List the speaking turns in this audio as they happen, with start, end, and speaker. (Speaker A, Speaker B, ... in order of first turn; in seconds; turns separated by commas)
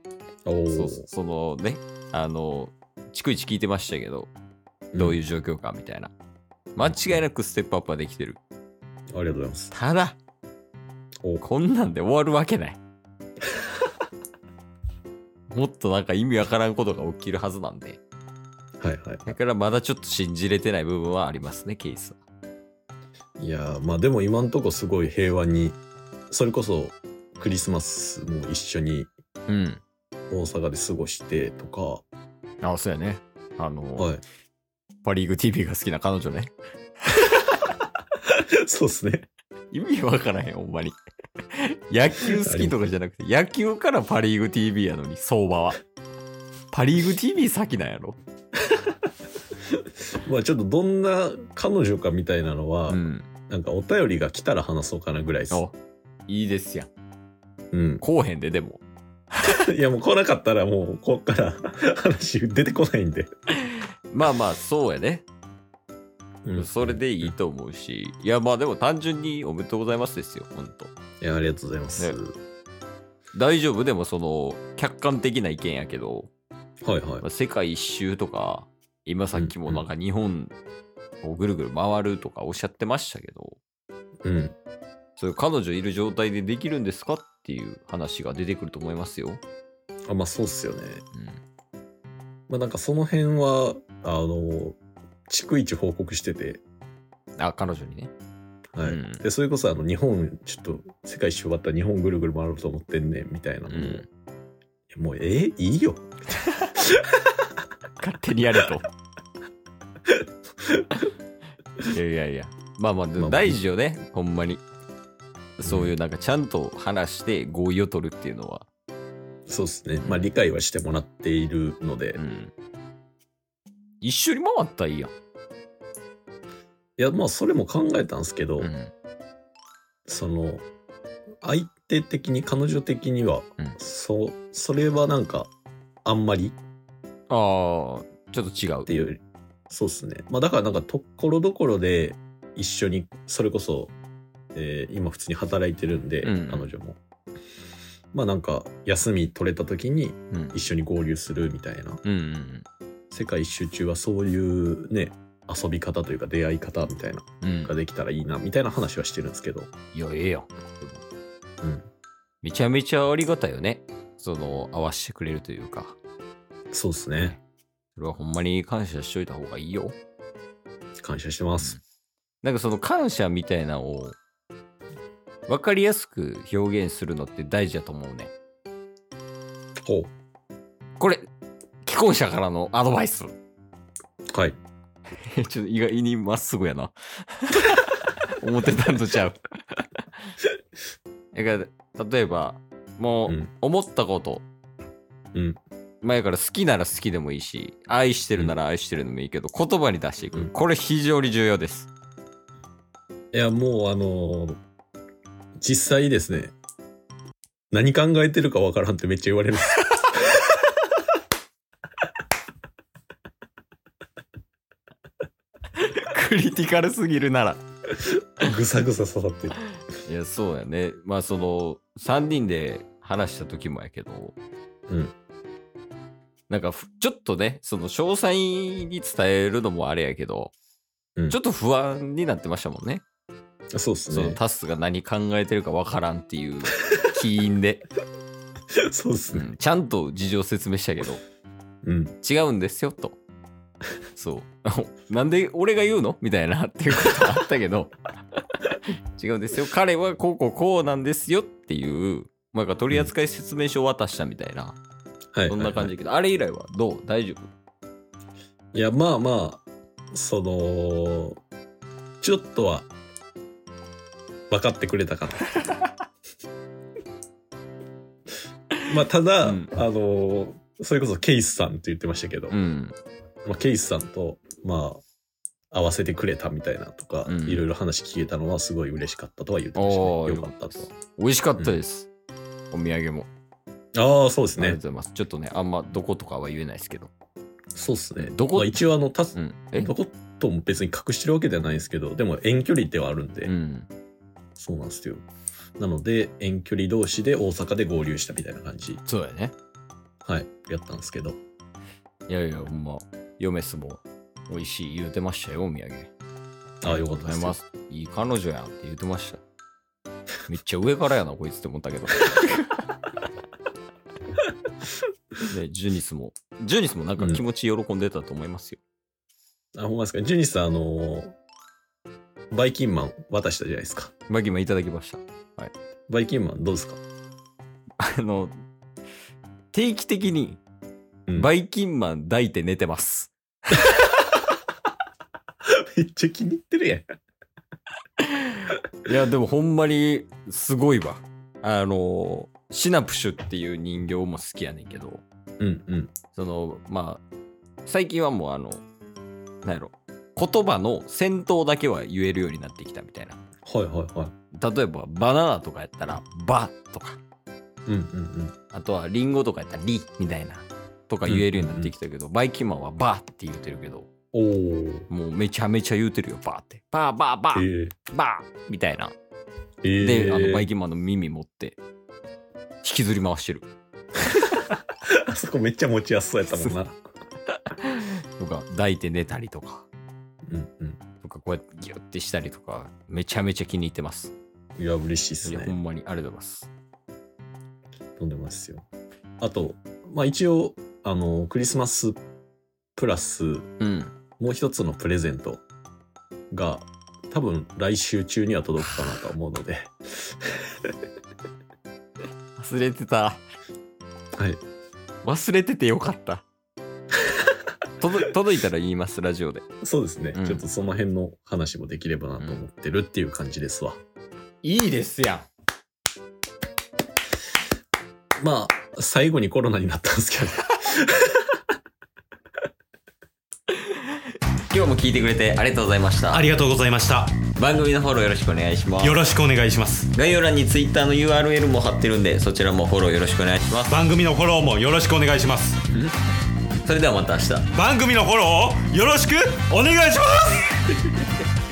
Speaker A: 0.5-1.1, Speaker B: 0.7-4.3, Speaker A: 4.9-5.2, Speaker B: 5.0-6.1, Speaker B: 6.8-8.4, Speaker A: 9.1-9.7, Speaker B: 9.7-10.2, Speaker B: 11.4-12.8, Speaker B: 15.5-18.0, Speaker A: 18.8-19.3, Speaker B: 19.2-22.2, Speaker A: 23.4-25.8, Speaker A: 26.3-29.1, Speaker B: 29.5-29.8, Speaker A: 30.3-32.0, Speaker B: 32.6-34.1, Speaker A: 34.0-34.2, Speaker B: 35.0-36.5, Speaker A: 38.3-39.3, Speaker B: 39.7-41.0, Speaker B: 41.5-45.8, Speaker A: 42.2-42.8, Speaker B: 46.7-48.2, Speaker A: 50.2-55.6, Speaker B: 52.9-53.3, Speaker B: 56.3-56.9, Speaker A: 57.7-58.0, Speaker B: 58.0-58.8, Speaker A: 59.5-63.3, Speaker B: 64.1-65.2, Speaker A: 66.4-67.3, Speaker B: 66.5-70.9, Speaker A: 71.2-72.3, Speaker B: 73.3-76.3, Speaker A: 76.8-77.2, Speaker B: 77.2-80.5, Speaker A: 79.3-79.9, Speaker B: 81.2-83.6, Speaker A: 84.2-84.5, Speaker B: 85.2-89.4, Speaker A: 90.1-91.0, Speaker B: 91.1-91.4, Speaker A: 92.5-94.8, Speaker A: 95.3-96.6, Speaker B: 97.4-98.1, Speaker A: 98.7-104.0, Speaker B: 98.8-99.2, Speaker B: 103.7-104.0, Speaker A: 104.9-106.1, Speaker B: 108.0-108.9, Speaker B: 111.9-114.6, Speaker A: 113.2-113.6, Speaker B: 115.6-118.7, Speaker A: 115.6-115.9, Speaker A: 119.5-122.2, Speaker B: 120.0-120.3, Speaker B: 122.2-122.5, Speaker B: 124.0-125.1, Speaker A: 127.0-128.7, Speaker B: 128.6-128.9, Speaker A: 130.1-130.6, Speaker A: 131.4-135.5, Speaker A: 136.0-136.6, Speaker B: 137.3-138.9, Speaker A: 138.9-143.9, Speaker A: 144.5-147.0, Speaker B: 146.2-146.7, Speaker A: 148.1-152.0, Speaker B: 150.3-150.6, Speaker B: 152.0-152.6, Speaker A: 153.1-159.7, Speaker B: 157.4-157.7, Speaker B: 159.9-161.0, Speaker A: 161.6-161.9, Speaker B: 162.4-166.0, Speaker A: 166.7-167.3, Speaker B: 167.9-169.9, Speaker A: 171.0-171.8, Speaker B: 172.4-174.2, Speaker B: 175.5-178.3, Speaker A: 179.8-180.1, Speaker B: 181.8-183.3, Speaker B: 185.3-189.8, Speaker B: 191.3-194.4, Speaker A: 195.3-195.6, Speaker B: 196.0-201.9, Speaker A: 203.3-204.6, Speaker A: 205.6-206.5, Speaker A: 207.7-210.1, Speaker B: 215.7-217.6, Speaker A: 218.4-219.6, Speaker B: 220.0-224.3, Speaker B: 226.5-230.5, Speaker B: 231.3-233.0, Speaker A: 233.7-234.4, Speaker B: 234.1-237.8, Speaker A: 238.9-239.5, Speaker B: 239.3-241.2, Speaker A: 241.8-242.1, Speaker B: 242.2-243.2, Speaker B: 244.1-247.9, Speaker B: 249.2-254.8, Speaker A: 255.3-255.9, Speaker B: 255.5-257.5, Speaker A: 258.7-259.6, Speaker A: 260.1-261.4, Speaker A: 262.2-262.9, Speaker A: 264.5-265.4, Speaker A: 268.8-272.5, Speaker B: 269.4-269.8, Speaker B: 272.5-272.9, Speaker A: 273.4-275.0, Speaker A: 275.7-280.9, Speaker B: 277.2-277.6, Speaker B: 279.7-282.1, Speaker B: 282.7-283.3, Speaker A: 283.9-284.8, Speaker B: 284.6-287.1, Speaker A: 287.7-293.5, Speaker B: 288.2-289.9, Speaker B: 293.4-293.9, Speaker A: 294.6-295.2, Speaker A: 295.8-299.0, Speaker B: 299.1-299.5, Speaker A: 300.2-301.4, Speaker B: 302.3-306.1, Speaker A: 306.8-307.6, Speaker B: 306.8-309.4, Speaker B: 310.4-312.7, Speaker B: 315.5-318.8, Speaker A: 319.8-321.4, Speaker A: 322.5-324.1, Speaker B: 324.3-325.7, Speaker A: 326.1-327.0, Speaker B: 328.0-328.5, Speaker B: 329.7-330.6, Speaker B: 331.3-333.3, Speaker A: 335.7-337.1, Speaker B: 338.2-345.2, Speaker A: 345.6-346.1, Speaker B: 346.3-347.2, Speaker B: 347.8-348.8, Speaker B: 349.6-353.4, Speaker A: 353.6-354.3, Speaker B: 354.5-357.2, Speaker A: 357.9-358.5, Speaker B: 358.7-364.1, Speaker A: 361.2-361.9, Speaker A: 364.3-365.1, Speaker B: 365.1-369.1, Speaker A: 367.5-367.9, Speaker A: 369.8-370.7, Speaker B: 370.0-371.8, Speaker B: 372.8-373.6, Speaker A: 375.1-377.0, Speaker B: 376.5-376.7, Speaker B: 377.7-379.9, Speaker A: 380.4-381.0, Speaker B: 381.2-384.3, Speaker A: 384.8-385.7, Speaker B: 385.4-386.7, Speaker A: 388.2-388.9, Speaker A: 389.4-392.2, Speaker A: 392.9-393.7, Speaker B: 393.8-394.1, Speaker A: 394.4-395.6, Speaker A: 396.5-400.4, Speaker B: 402.6-403.4, Speaker B: 405.2-406.4, Speaker B: 408.0-409.6, Speaker A: 409.8-414.0, Speaker B: 410.3-410.6, Speaker B: 414.6-415.5, Speaker A: 418.4-421.4, Speaker B: 424.7-426.5, Speaker C: 426.3-427.4, Speaker B: 427.6-429.2, Speaker C: 429.0-430.1, Speaker B: 430.1-434.0, Speaker C: 433.9-435.8, Speaker B: 436.8-437.7, Speaker C: 437.7-440.8